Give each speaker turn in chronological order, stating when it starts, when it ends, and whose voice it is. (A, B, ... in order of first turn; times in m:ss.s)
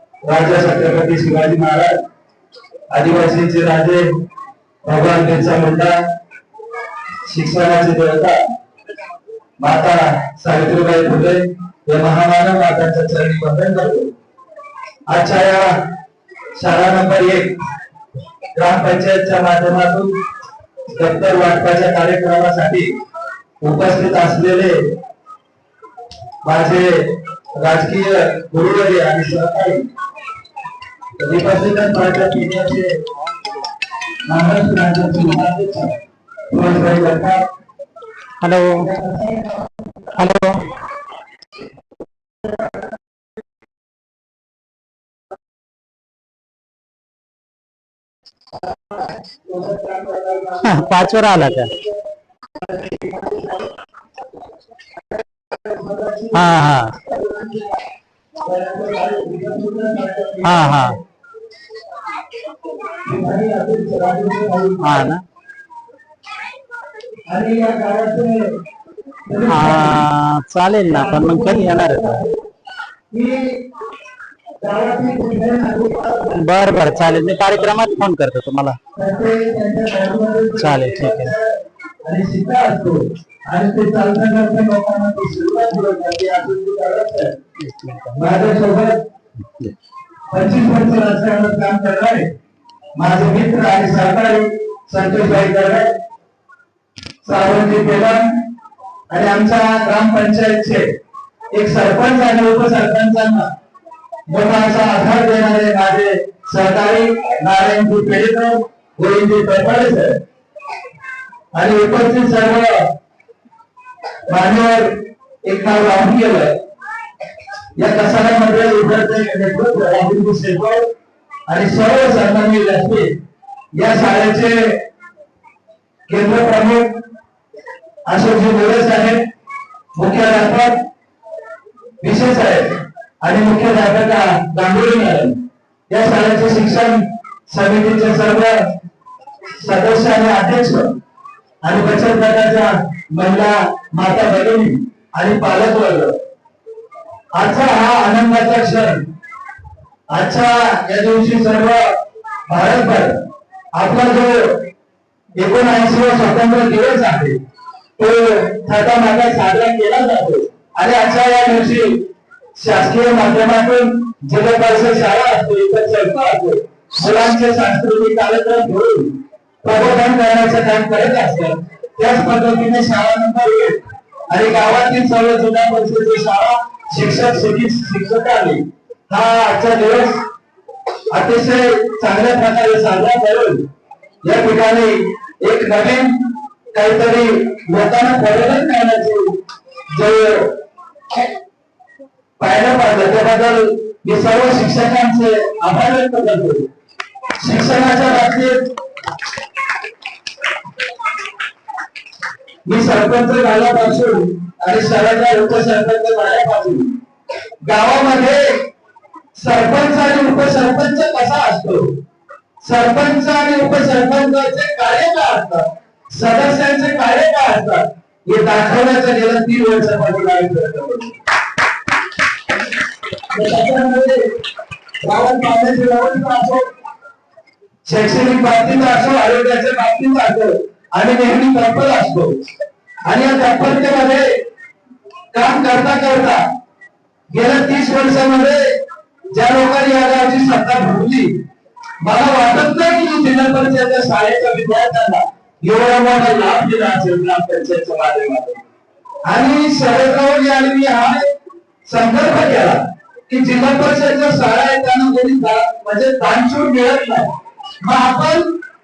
0:00.2-0:02.0 A
0:02.9-0:04.0 A
0:04.8-0:06.0 A
0:07.2-0:08.4 A
0:09.6-0:14.1 A
0:15.1-0:15.7 A
0:16.6-0:17.6 A
0:18.6-0:20.1 A
0:20.9-0:22.9 A
0:23.6-0:24.8 A
0:26.4-0:27.0 A
0:27.6-0:29.8 A
0:31.2-0:33.0 A
0:34.3-0:37.4 A
0:38.4-0:38.9 B
0:38.8-0:39.6 A
0:40.1-0:40.6 B
0:49.4-0:51.8 A
0:50.6-0:51.7 B
0:52.6-0:53.6 A
0:55.5-0:57.8 A
0:56.3-0:56.9 B
0:58.4-1:01.0 A
1:00.4-1:01.0 B
1:03.0-1:05.1 A
1:04.8-1:05.2 B
1:07.3-1:08.5 A
1:09.3-1:10.0 A
1:09.5-1:12.2 B
1:10.8-1:12.3 A
1:13.1-1:13.6 A
1:14.6-1:17.9 A
1:16.3-1:18.8 B
1:19.0-1:27.4 A
1:20.6-1:21.3 B
1:27.6-1:28.2 B
1:28.2-1:29.0 A
1:30.3-1:32.3 A
1:33.0-1:35.9 A
1:37.2-1:38.3 A
1:39.1-1:40.9 A
1:41.5-1:43.5 A
1:44.3-1:50.2 A
1:51.5-1:52.9 A
1:54.3-1:56.5 A
1:57.8-2:00.9 A
2:01.5-2:03.1 A
2:03.7-2:04.8 A
2:06.1-2:06.9 A
2:08.1-2:09.2 A
2:10.0-2:10.8 A
2:12.0-2:15.4 A
2:15.9-2:18.6 A
2:19.6-2:20.9 A
2:21.6-2:26.1 A
2:27.4-2:29.0 A
2:30.1-2:31.9 A
2:32.5-2:33.1 A
2:33.7-2:34.6 A
2:35.4-2:37.4 A
2:38.0-2:53.8 A
2:54.3-3:00.2 A
3:01.1-3:03.6 A
3:04.2-3:06.1 A
3:06.7-3:09.4 A
3:09.9-3:10.5 A
3:12.4-3:16.7 A
3:17.4-3:18.7 A
3:22.6-3:26.9 A
3:27.6-3:28.6 A
3:29.3-3:31.9 A
3:32.6-3:41.2 A
3:43.3-3:44.2 A
3:45.0-3:46.7 A
3:47.8-3:52.4 A
3:53.0-3:54.3 A
3:55.3-3:56.4 A
3:57.3-3:58.7 A
3:59.3-4:01.3 A
4:02.0-4:08.6 A
4:09.3-4:11.3 A
4:11.8-4:17.3 A
4:17.8-4:18.5 A